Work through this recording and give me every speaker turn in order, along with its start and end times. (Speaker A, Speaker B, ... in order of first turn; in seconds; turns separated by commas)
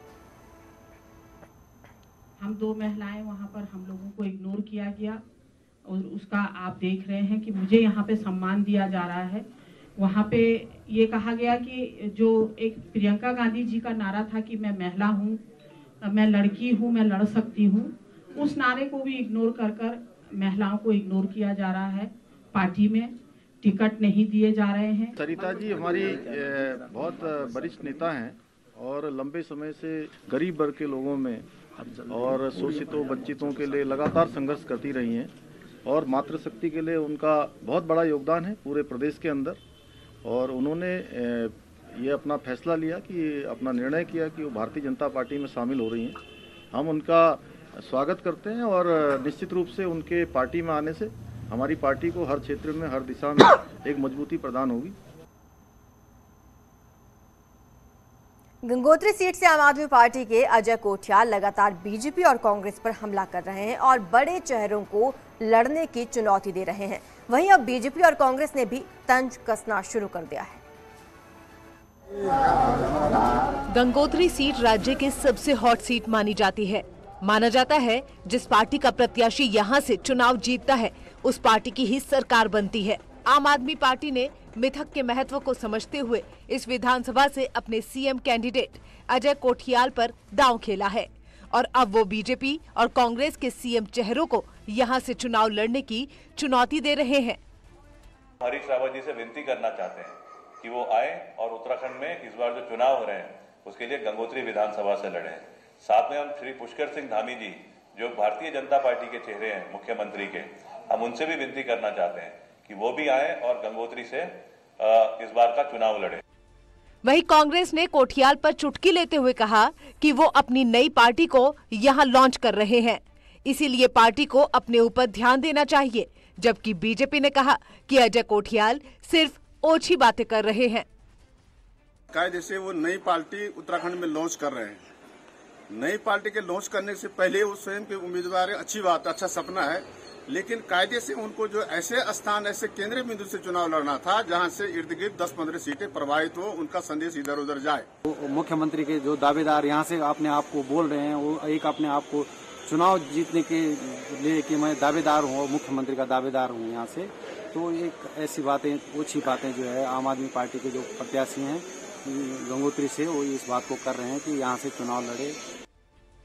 Speaker A: 2.4-5.2, Speaker A: 5.9-9.4, Speaker A: 10.0-15.4, Speaker A: 16.0-23.1, Speaker A: 23.6-25.1, Speaker B: 25.2-35.3, Speaker B: 35.9-39.6, Speaker B: 40.2-46.2, Speaker B: 46.7-55.0, Speaker C: 58.6-70.6, Speaker D: 73.7-97.4, Speaker E: 98.4-116.2, Speaker D: 117.0-130.9, Speaker F: 132.1-134.9, Speaker F: 135.7-147.9, Speaker G: 148.1-165.4